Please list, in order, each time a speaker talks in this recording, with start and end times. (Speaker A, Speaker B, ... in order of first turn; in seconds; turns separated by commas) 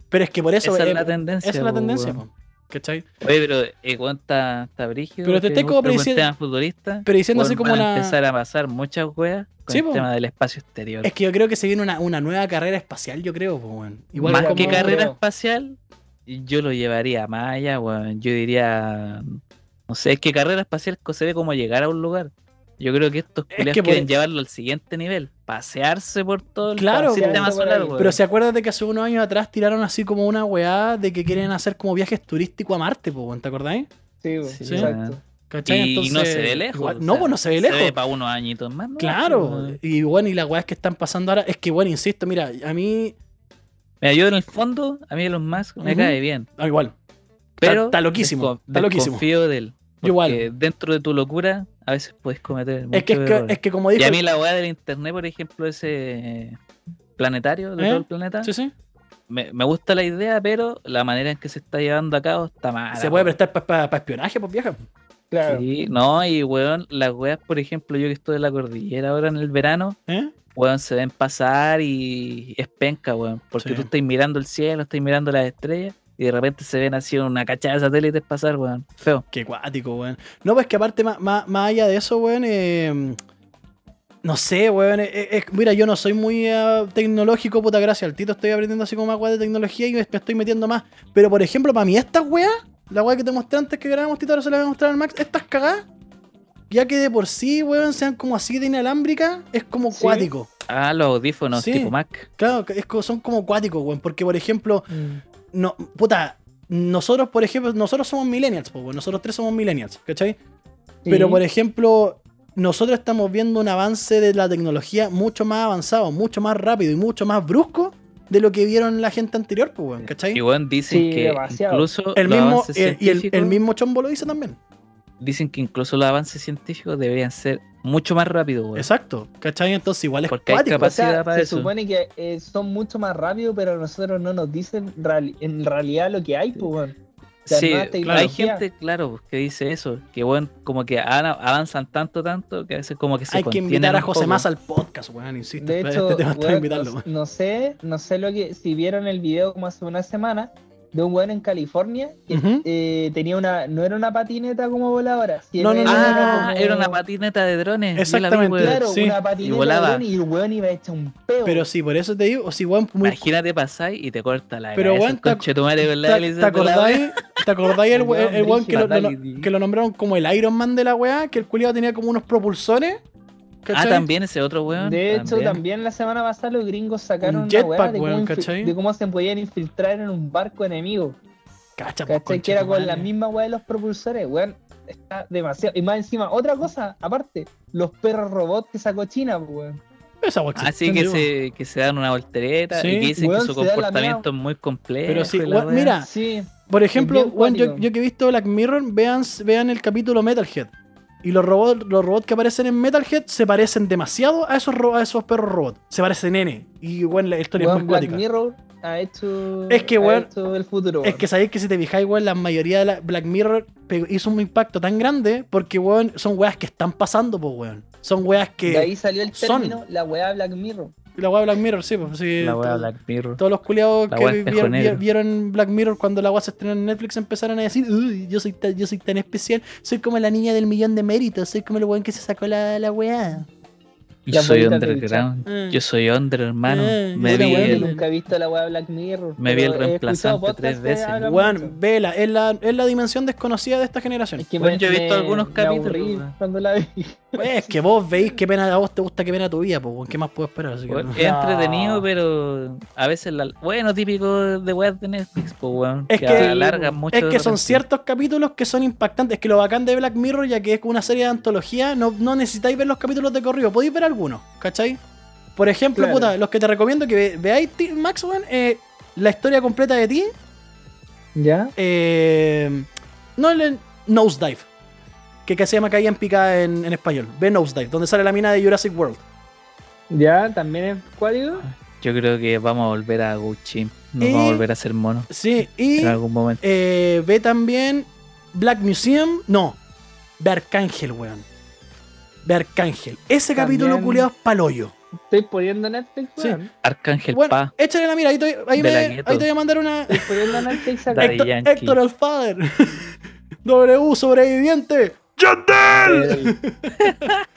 Speaker A: 0.1-3.1, Speaker B: 0.6-2.2, Speaker B: 3.2-11.1, Speaker A: 5.2-6.2, Speaker A: 7.0-8.1, Speaker A: 9.7-10.1, Speaker A: 11.0-15.0, Speaker C: 14.1-15.2, Speaker B: 14.2-28.1, Speaker A: 23.5-24.1, Speaker A: 26.7-33.9, Speaker C: 27.1-28.1, Speaker C: 34.2-35.2, Speaker B: 34.4-39.8, Speaker A: 34.6-34.9, Speaker A: 35.5-37.9, Speaker A: 39.0-43.1, Speaker B: 44.0-46.5, Speaker A: 45.8-46.9, Speaker B: 47.6-56.6, Speaker A: 47.6-49.2, Speaker A: 50.0-50.4, Speaker A: 52.9-54.2, Speaker B: 57.2-58.5, Speaker A: 57.8-58.7, Speaker B: 59.3-63.3, Speaker A: 62.9-64.8, Speaker C: 65.3-65.6, Speaker B: 65.5-70.0, Speaker A: 70.1-70.3, Speaker B: 70.5-79.2, Speaker A: 73.6-73.9, Speaker A: 79.3-83.2, Speaker A: 84.2-95.8, Speaker A: 96.7-100.5, Speaker C: 99.9-100.3, Speaker B: 100.7-102.3, Speaker A: 101.5-104.9, Speaker C: 104.9-105.2, Speaker A: 105.5-110.4, Speaker C: 111.0-111.4, Speaker A: 111.1-120.4, Speaker B: 120.3-123.6, Speaker C: 120.9-121.9, Speaker A: 122.1-124.6, Speaker B: 125.2-128.9, Speaker A: 128.7-130.9, Speaker B: 130.3-131.7, Speaker C: 130.8-136.9, Speaker B: 137.5-144.4, Speaker C: 137.5-138.6, Speaker A: 138.0-138.3, Speaker A: 143.3-147.0, Speaker C: 145.6-157.0, Speaker A: 152.3-152.6, Speaker A: 155.6-156.5, Speaker B: 155.9-158.8, Speaker A: 157.9-159.2, Speaker C: 158.6-161.6, Speaker B: 159.4-160.0, Speaker A: 161.4-163.3, Speaker B: 163.0-167.4, Speaker A: 164.8-165.4, Speaker A: 166.0-173.0, Speaker C: 167.9-168.9, Speaker B: 168.7-169.5, Speaker A: 173.6-174.1, Speaker B: 173.7-175.6, Speaker C: 174.7-181.2, Speaker A: 177.2-178.7, Speaker A: 181.8-183.1, Speaker C: 182.1-189.8, Speaker A: 190.2-191.3, Speaker B: 190.6-196.0, Speaker A: 192.7-193.1, Speaker C: 193.2-194.2, Speaker A: 195.1-196.1, Speaker C: 196.0-197.9, Speaker A: 196.7-200.7, Speaker A: 201.2-208.2, Speaker C: 207.6-211.2, Speaker A: 209.7-210.3, Speaker A: 211.0-219.8, Speaker C: 218.7-220.9, Speaker A: 221.2-233.5, Speaker B: 222.4-223.4, Speaker B: 224.1-225.0, Speaker B: 234.2-237.8, Speaker C: 234.3-235.3, Speaker A: 235.4-235.8, Speaker A: 236.7-238.0, Speaker C: 237.2-241.8, Speaker B: 239.4-241.2, Speaker A: 241.2-244.5, Speaker C: 244.4-247.8, Speaker B: 244.6-246.3, Speaker A: 247.4-252.1, Speaker B: 250.9-257.8, Speaker A: 256.1-265.0, Speaker C: 256.3-256.9, Speaker A: 265.6-270.3, Speaker C: 265.9-266.3, Speaker C: 271.4-271.7, Speaker A: 271.8-274.7, Speaker A: 275.4-279.2, Speaker C: 280.1-281.6, Speaker B: 281.6-285.3, Speaker A: 284.2-284.6, Speaker A: 285.3-289.8, Speaker B: 286.0-286.6, Speaker A: 290.4-291.4, Speaker A: 292.4-294.9, Speaker C: 293.6-294.3, Speaker C: 295.3-296.7, Speaker B: 296.8-297.7, Speaker A: 297.3-307.3, Speaker B: 298.8-299.4, Speaker C: 300.1-301.4, Speaker B: 301.1-302.0, Speaker C: 305.9-306.6, Speaker B: 307.0-307.4